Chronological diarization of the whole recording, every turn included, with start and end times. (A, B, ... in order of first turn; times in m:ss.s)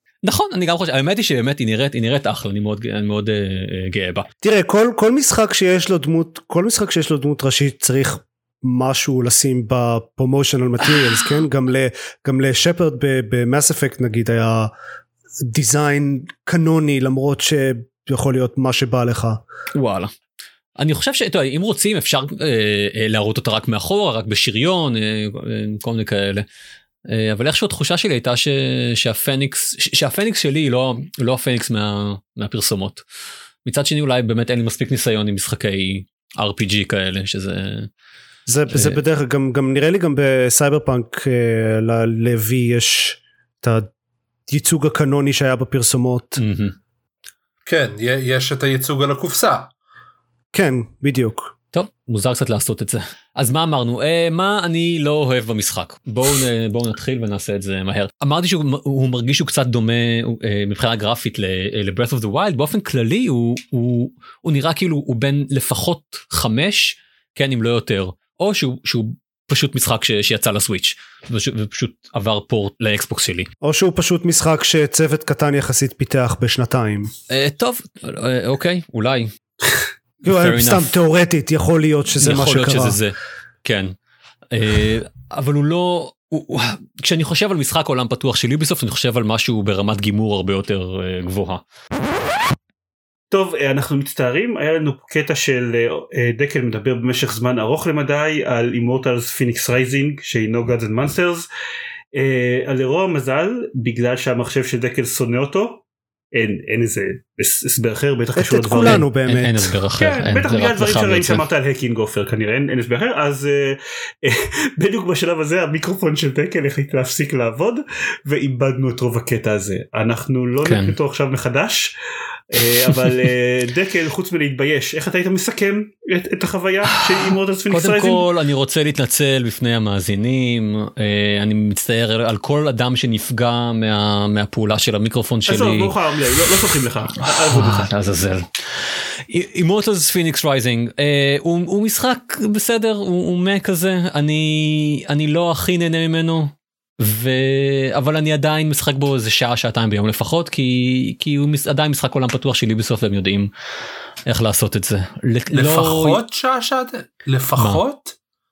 0:00.2-0:04.3 A
0:04.4-0:14.7 B
0:15.5-0:19.4 B
0:19.8-0:20.1 A
0:20.8-0:26.4 A
0:27.1-0:33.0 A
0:33.6-0:37.9 A
0:38.5-0:43.9 B
0:38.7-0:39.0 A
0:44.5-0:46.4 B
0:46.4-0:46.8 A
0:47.7-0:49.7 C
0:50.5-0:51.5 B
0:51.7-1:13.5 A
1:13.6-1:17.1 B
1:17.3-1:19.3 A
1:20.2-1:23.0 B
1:20.3-1:21.0 A
1:22.2-1:23.9 A
1:24.5-1:31.6 A
1:33.3-1:41.5 D
1:42.1-1:49.1 D
1:48.4-1:49.7 B
1:48.8-1:51.4 A
1:50.0-2:01.9 D
2:00.6-2:01.0 A
2:02.5-2:08.2 D
2:07.7-2:15.9 A
2:15.5-2:17.9 D
2:17.2-2:33.5 A
2:34.3-2:36.2 A
2:35.5-2:38.2 C